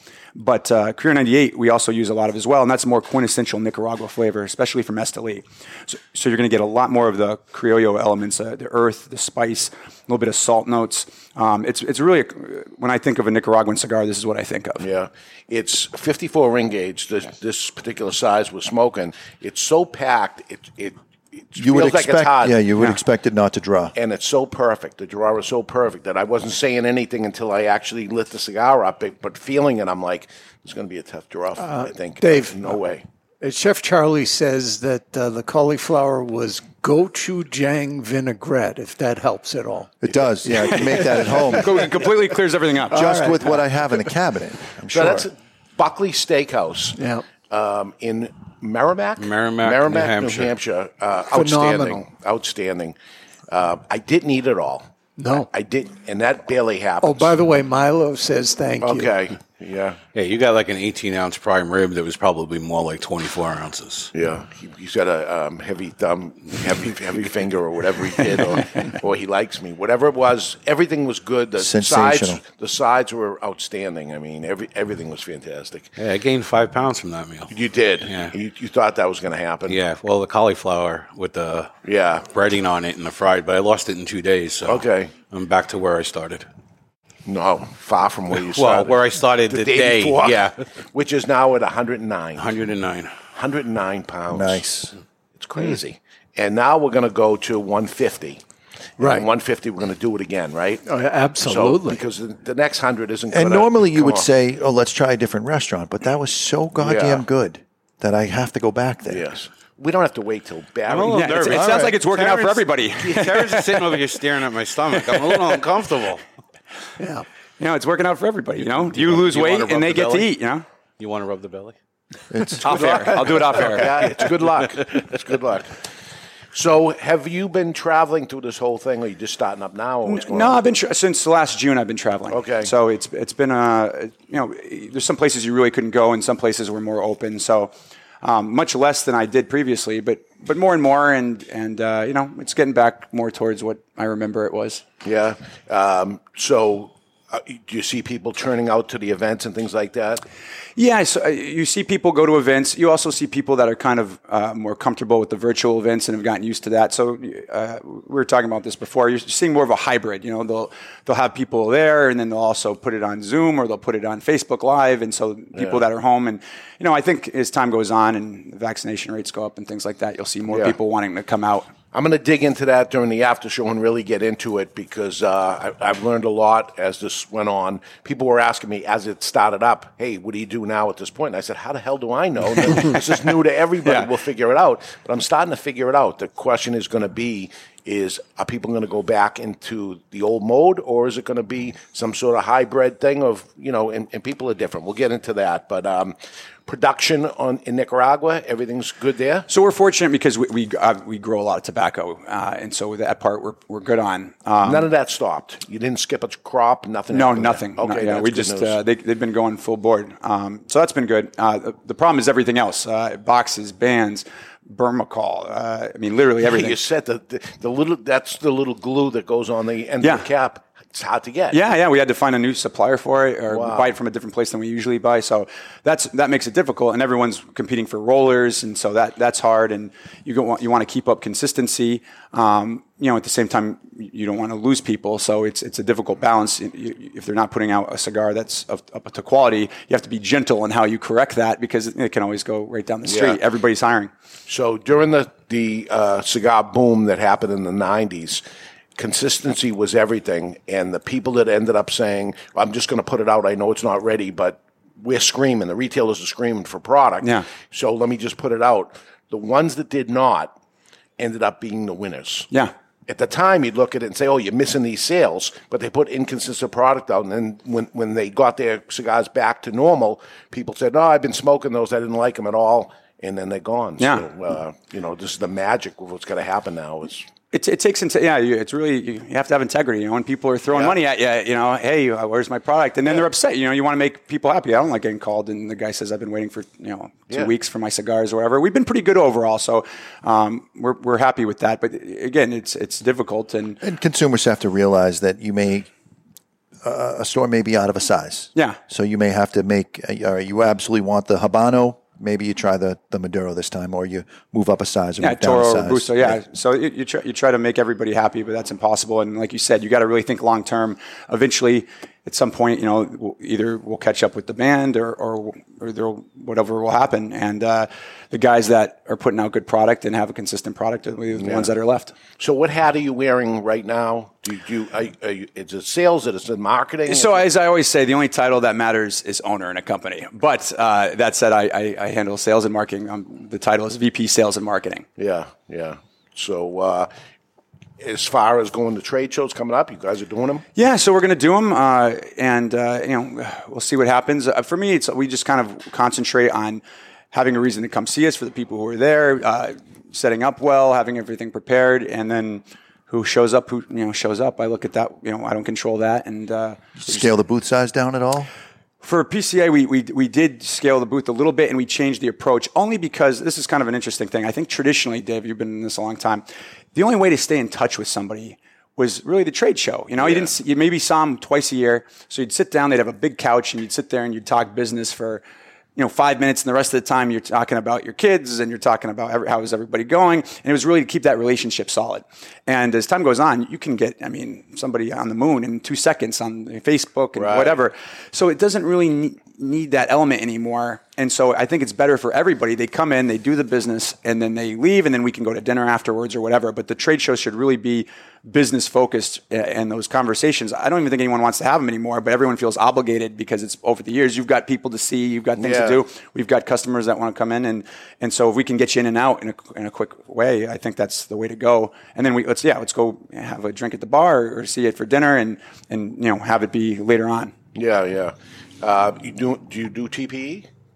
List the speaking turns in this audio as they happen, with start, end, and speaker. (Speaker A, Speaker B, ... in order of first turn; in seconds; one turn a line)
Speaker A: 0.3-14.8
Speaker B: 14.8-22.6
Speaker C: 21.6-23.9
Speaker B: 23.9-33.0
Speaker D: 31.6-32.7
Speaker D: 33.4-40.0
Speaker C: 40.0-41.9
Speaker A: 40.7-43.2
Speaker D: 40.8-41.6
Speaker C: 42.9-45.3
Speaker D: 42.9-43.6
Speaker B: 44.9-53.0
Speaker D: 47.0-47.2
Speaker E: 49.2-50.5
Speaker D: 51.3-52.0
Speaker B: 53.5-57.4
Speaker D: 55.2-55.5
Speaker D: 57.0-59.2
Speaker B: 58.8-60.0
Speaker E: 60.1-64.1
Speaker B: 64.1-75.9
Speaker C: 71.6-72.4
Speaker E: 76.0-77.5
Speaker B: 77.5-79.8
Speaker E: 78.0-78.3
Speaker E: 79.7-81.7
Speaker B: 81.9-82.3
Speaker E: 82.3-86.5
Speaker B: 84.7-85.1
Speaker B: 87.3-92.5
Speaker E: 88.3-90.6
Speaker E: 92.4-93.1
Speaker B: 93.3-94.6
Speaker C: 94.3-94.9
Speaker B: 95.4-98.4
Speaker D: 99.0-99.3
Speaker B: 99.0-100.8
Speaker D: 100.9-102.0
Speaker B: 101.4-104.3
Speaker C: 103.3-109.3
Speaker B: 106.8-107.2
Speaker B: 109.1-111.8
Speaker E: 110.9-116.2
Speaker A: 111.1-113.6
Speaker C: 111.7-111.9
Speaker D: 117.0-117.2
Speaker A: 117.6-120.7
Speaker E: 118.8-120.3
Speaker E: 121.0-121.8
Speaker C: 122.3-123.0
Speaker A: 122.6-124.0
Speaker B: 122.7-125.8
Speaker B: 126.5-130.6
Speaker A: 130.1-144.8
Speaker B: 132.3-132.7
Speaker B: 145.0-150.2
Speaker A: 150.8-171.7
Speaker B: 165.6-165.8
Speaker B: 170.5-170.8
Speaker B: 171.9-196.2
Speaker A: 183.8-184.1
Speaker B: 196.7-199.5
Speaker A: 199.5-204.9
Speaker B: 204.6-208.8
Speaker A: 207.1-216.8
Speaker B: 216.4-221.6
Speaker A: 220.0-220.3
Speaker A: 221.5-244.1
Speaker B: 223.5-223.9
Speaker B: 243.1-243.4
Speaker B: 244.5-248.4
Speaker B: 249.0-260.6
Speaker A: 257.2-257.5
Speaker B: 261.2-262.5
Speaker B: 263.1-277.3
Speaker A: 274.0-274.2
Speaker A: 277.5-293.8
Speaker B: 280.7-281.0
Speaker C: 293.8-295.9
Speaker C: 296.8-306.4
Speaker A: 305.2-322.1
Speaker B: 321.4-321.7
Speaker B: 322.4-327.5
Speaker A: 327.1-335.1
Speaker B: 335.2-337.1
Speaker B: 338.0-340.6
Speaker A: 340.8-357.3
Speaker C: 357.0-358.5
Speaker A: 359.0-375.4
Speaker B: 370.2-370.5
Speaker A: 376.0-417.5
Speaker B: 387.4-387.8
Speaker B: 405.6-406.0
Speaker B: 417.8-420.7